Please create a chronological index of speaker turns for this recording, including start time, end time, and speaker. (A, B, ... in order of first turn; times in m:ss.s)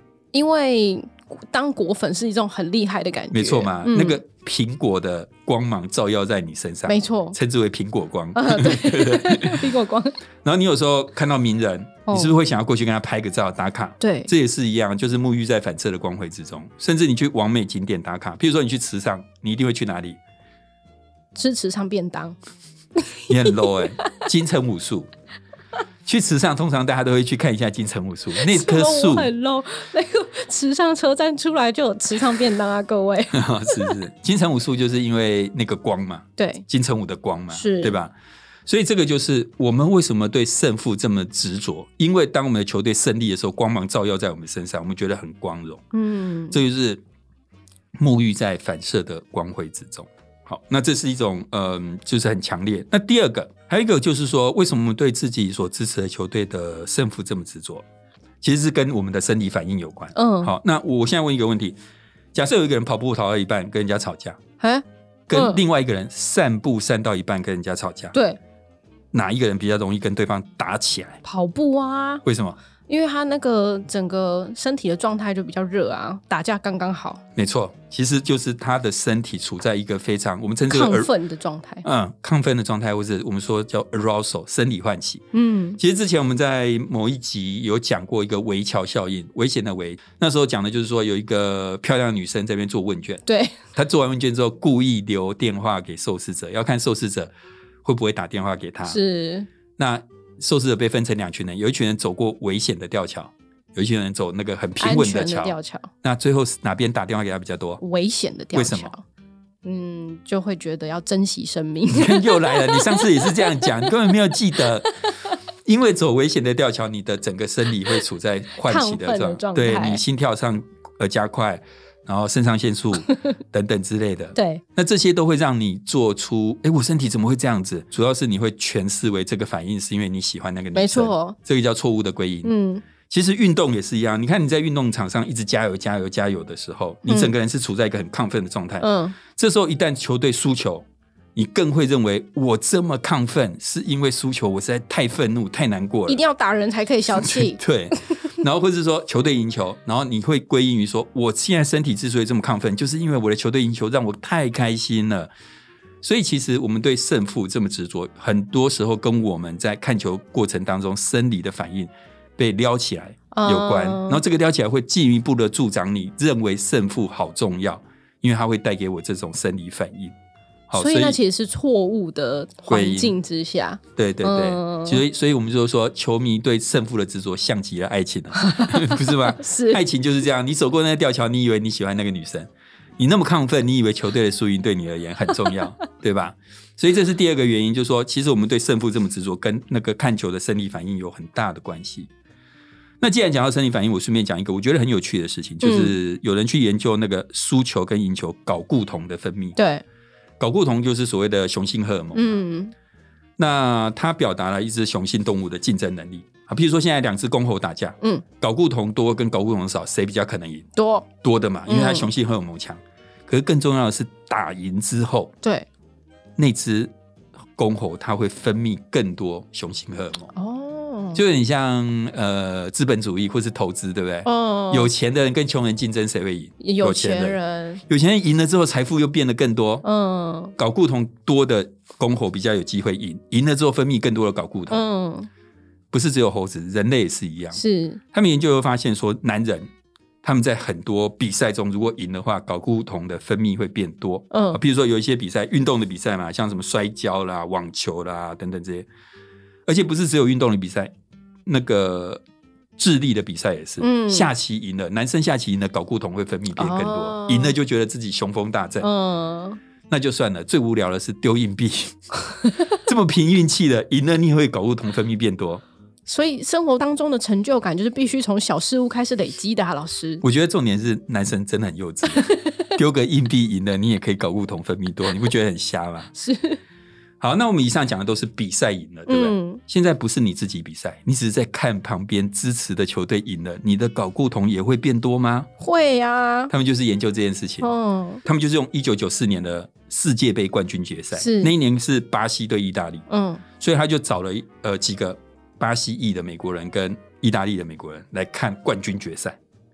0:00.3-0:04.2 A
0:03.3-0:09.7 B
0:06.9-0:07.4 A
0:08.4-0:10.2 A
0:10.4-0:20.2 B
0:12.1-0:12.4 A
0:14.0-0:14.3 A
0:21.4-0:22.4 A
0:23.0-0:23.7 A
0:23.3-0:25.1 B
0:26.1-0:29.3 B
0:28.4-0:33.9 A
0:33.3-0:38.1 B
0:36.4-0:36.7 A
0:37.5-0:38.0 A
0:38.7-0:45.8 B
0:45.9-0:46.6 A
0:46.5-0:47.0 B
0:48.0-0:57.8 B
0:58.4-1:01.8 B
1:00.2-1:00.5 A
1:02.3-1:04.4 B
1:04.6-1:05.6 A
1:05.3-1:08.2 B
1:08.1-1:08.4 A
1:09.1-1:11.2 B
1:11.2-1:12.2 A
1:12.2-1:12.6 B
1:12.9-1:17.2 A
1:17.4-1:21.1 B
1:20.7-1:21.8 A
1:21.8-1:25.2 B
1:25.3-1:25.8 A
1:25.8-1:33.2 B
1:33.3-1:33.6 A
1:33.7-1:37.3 B
1:37.8-1:39.0 B
1:38.8-1:39.5 A
1:39.8-1:47.8 B
1:44.8-1:45.9 A
1:47.8-1:49.0 A
1:48.5-1:48.9 B
1:49.6-1:53.7 A
1:51.9-1:54.9 B
1:55.6-2:12.5 B
1:58.6-2:00.0 A
2:04.4-2:04.6 A
2:10.7-2:11.4 A
2:12.4-2:12.8 A
2:13.1-2:26.2 B
2:17.1-2:17.3 A
2:18.8-2:19.2 A
2:26.1-2:28.1 A
2:27.2-2:35.3 B
2:36.0-2:50.1 B
2:43.3-2:44.2 A
2:50.7-2:51.2 B
2:50.7-2:55.0 A
2:52.7-2:53.1 B
2:54.0-3:12.1 B
2:58.4-2:59.8 A
3:13.0-3:19.6 B
3:15.6-3:16.0 A
3:19.6-3:19.8 A
3:20.4-3:22.4 B
3:22.1-3:22.7 A
3:23.4-3:30.7 B
3:30.8-3:31.1 A
3:31.2-3:35.3 B
3:31.7-3:32.1 A
3:35.4-3:35.7 A
3:36.4-3:36.9 B
3:37.6-3:40.3 B
3:40.3-3:41.2 A
3:41.2-3:49.8 B
3:44.2-3:44.9 A
3:46.6-3:47.8 A
3:49.8-3:50.6 A
3:50.6-3:54.8 B
3:54.7-3:55.3 A
3:55.9-3:59.7 B
3:57.5-3:58.0 A
4:00.2-4:08.9 B
4:04.3-4:04.6 A
4:09.7-4:10.9 B
4:11.5-4:12.2 B
4:12.8-4:18.9 B
4:13.8-4:14.3 A
4:16.6-4:17.6 A
4:18.8-4:19.6 A
4:19.9-4:22.0 B
4:22.7-4:25.6 B
4:26.1-4:30.2 A
4:30.2-4:36.1 B
4:32.1-4:32.6 A
4:36.2-4:36.6 A
4:37.2-4:45.5 B
4:39.1-4:39.6 A
4:45.6-4:46.5 A
4:46.5-4:47.7 B
4:47.6-4:48.2 A
4:48.2-4:53.0 B
4:51.1-4:51.5 A
4:53.1-4:53.4 A
4:53.6-4:59.4 B